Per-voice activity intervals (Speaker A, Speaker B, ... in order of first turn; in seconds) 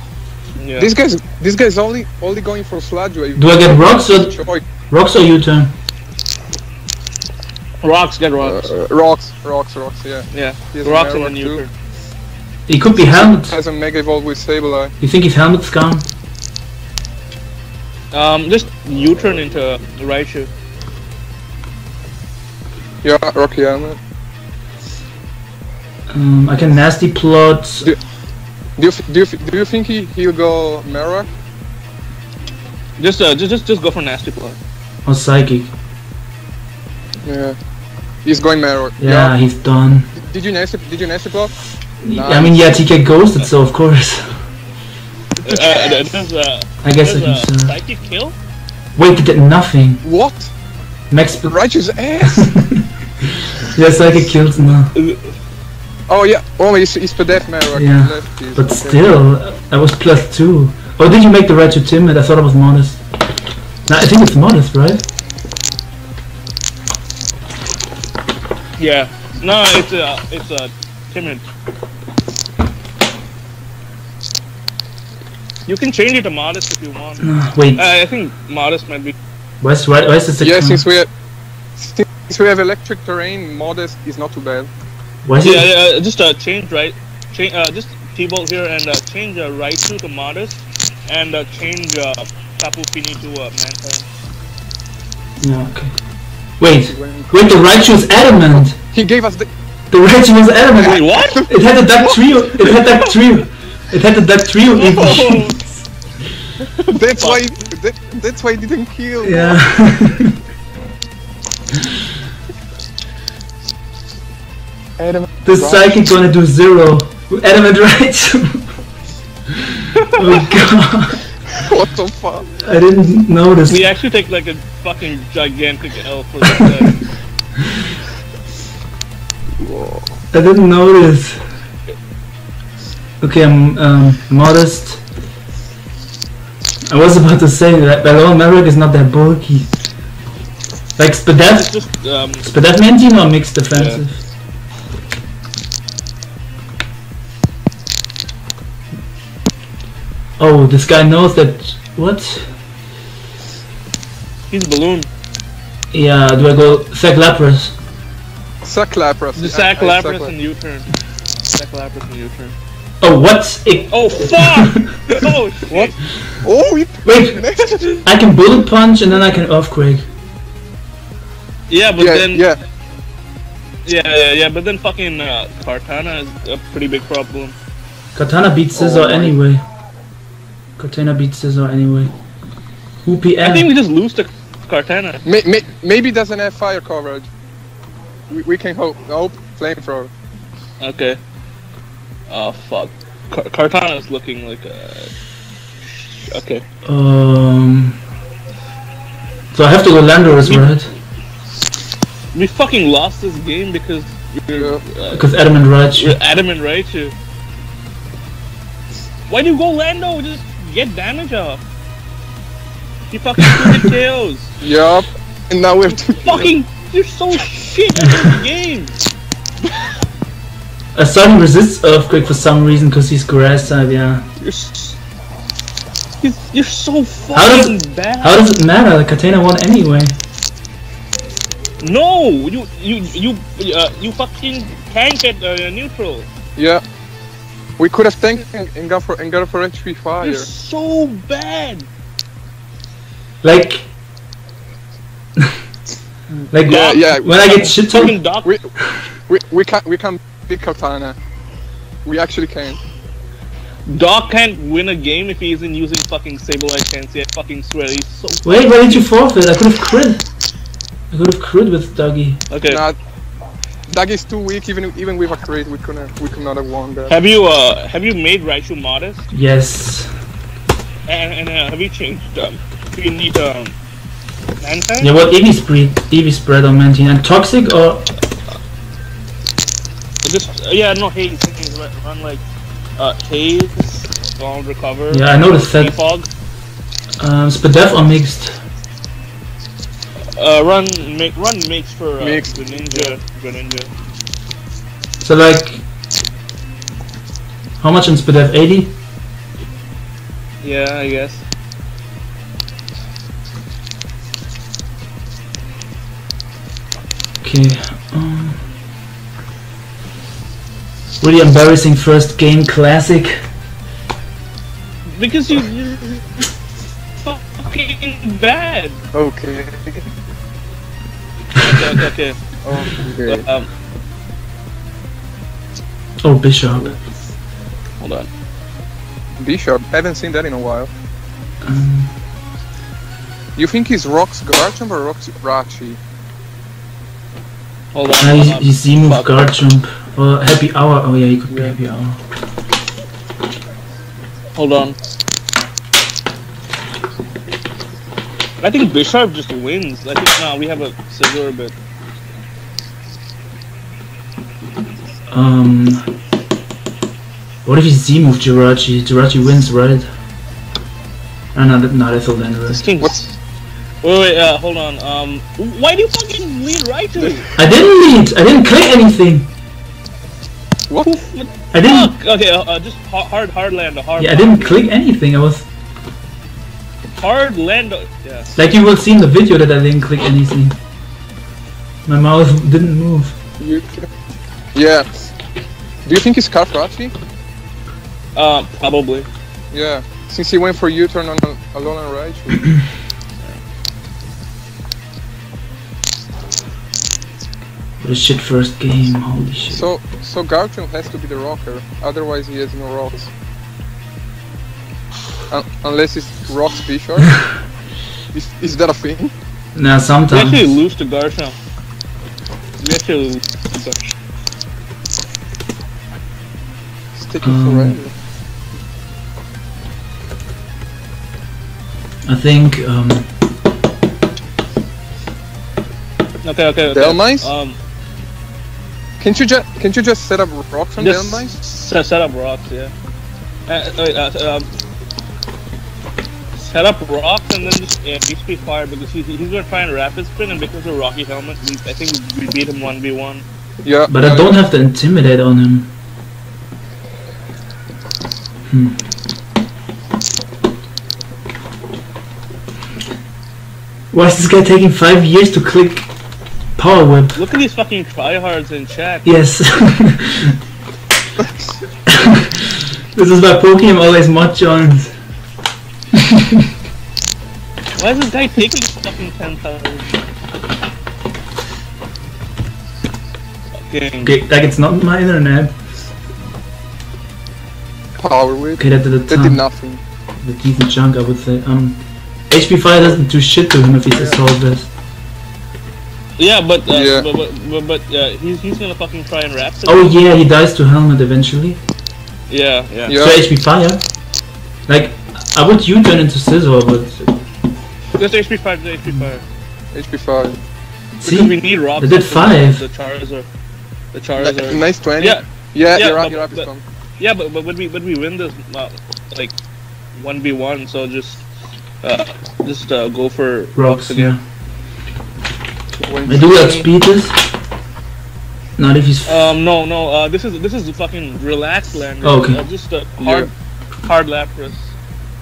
Speaker A: 0.6-0.9, 7.8-8.7, 10.3-11.7, 18.1-20.5, 33.0-34.6, 45.4-48.4, 54.9-55.3, 68.8-71.5, 75.7-79.2, 85.4-94.0, 100.8-101.5, 102.6-103.1, 104.7-105.6, 106.6-107.5, 120.0-120.4, 123.7-127.0, 141.3-142.5, 143.7-144.0, 154.5-155.1, 159.3-160.9, 161.5-162.5, 163.9-166.0, 171.7-172.5, 173.8-177.6, 183.4-185.2, 190.8-191.2, 192.3-195.1, 195.9-196.6, 200.4-200.7, 202.3-205.3, 205.9-207.1, 209.3-211.6, 213.1-214.5, 215.9-218.9, 224.4-225.0, 226.2-228.4, 231.8-236.3, 240.2-241.9, 246.7-248.5, 253.9-259.0, 262.5-262.8, 267.1-269.2, 271.1-273.7, 274.6-275.1, 280.2-282.4, 283.0-286.3, 290.4-293.9, 300.6-301.4, 315.1-316.2, 317.2-319.0, 321.6-322.4, 323.2-323.7, 328.0-328.3, 337.9-339.3, 344.5-345.0, 348.6-351.7, 362.7-363.3, 364.0-367.5, 371.0-374.8, 377.2-378.5, 388.4-389.3, 410.3-411.6, 412.8-414.1, 426.4-427.8, 431.0-432.9, 433.7-434.7, 436.6-443.4, 457.3-459.3, 468.0-470.2, 473.9-474.3, 486.4-490.1, 492.5-493.1, 498.2-499.4, 501.2-503.5, 504.1-509.5, 510.1-511.4, 512.0-514.3, 519.2-523.5, 524.0-524.9
Speaker B: 0.8-4.6, 8.4-11.6, 12.9-14.9, 23.0-24.0, 28.8-31.3, 37.2-37.6, 38.2-39.3, 40.1-41.5, 42.1-42.8, 45.5-45.9, 50.0-50.5, 51.4-52.5, 56.1-59.1, 80.4-81.1, 81.8-84.7, 96.9-99.5, 100.8-102.2, 106.9-109.7, 115.0-116.0, 121.5-122.5, 129.6-130.1, 158.6-160.3, 166.4-168.0, 172.0-172.6, 178.7-179.3, 185.2-187.3, 188.3-190.1, 204.6-204.8, 214.6-216.5, 236.6-236.8, 237.8-240.5, 246.5-248.8, 249.3-251.2, 252.0-252.8, 262.6-263.0, 263.9-267.1, 292.2-293.1, 319.1-320.0, 322.6-323.4, 329.4-330.9, 333.6-336.0, 383.6-384.1, 384.7-385.1, 386.0-387.1, 389.7-392.7, 399.7-403.3, 405.5-407.4, 408.3-409.3, 417.1-418.1, 426.9-427.5, 429.2-431.5, 443.8-444.6, 478.2-480.0, 484.1-484.4, 486.9-487.3, 493.1-493.4, 499.9-500.6, 504.4-506.8, 516.0-516.8, 523.2-523.5
Speaker C: 3.4-5.7, 12.7-13.6, 15.0-16.1, 26.1-27.9, 35.0-35.7, 39.0-40.1, 42.0-44.5, 46.8-47.8, 49.0-50.0, 51.1-51.5, 52.2-54.9, 57.7-63.0, 63.9-65.0, 77.2-77.8, 79.6-80.8, 85.2-85.7, 95.4-95.9, 96.6-98.8, 99.9-105.8, 109.2-110.3, 115.4-118.8, 119.5-121.2, 122.6-123.9, 130.3-131.4, 133.2-135.0, 136.8-139.7, 141.0-141.7, 142.4-144.2, 150.4-152.5, 155.9-157.7, 163.0-165.1, 167.0-167.4, 168.0-170.1, 178.1-179.6, 180.8-182.1, 183.0-183.7, 196.8-198.0, 199.5-200.9, 205.1-206.2, 220.9-224.2, 227.3-230.2, 243.4-243.9, 246.5-248.2, 258.4-260.2, 261.1-262.4, 269.3-270.1, 275.0-278.1, 285.1-285.9, 287.2-288.6, 295.2-295.8, 297.8-298.9, 307.4-308.6, 311.2-313.4, 326.2-327.0, 331.6-332.1, 338.2-342.2, 355.3-356.1, 357.6-360.1, 361.5-362.9, 367.6-369.5, 371.7-372.1, 374.2-375.7, 378.6-380.8, 382.1-383.4, 398.0-399.9, 409.7-410.8, 417.4-418.0, 422.2-423.3, 444.1-445.9, 448.7-449.0, 454.1-456.1, 456.8-457.4, 459.2-460.6, 462.1-465.1, 466.1-466.7, 474.2-475.7, 478.8-479.6, 480.4-484.9, 489.9-491.8, 493.2-494.0, 494.9-497.4, 501.2-502.8, 513.8-514.4, 516.2-517.4, 518.8-519.4, 522.2-522.6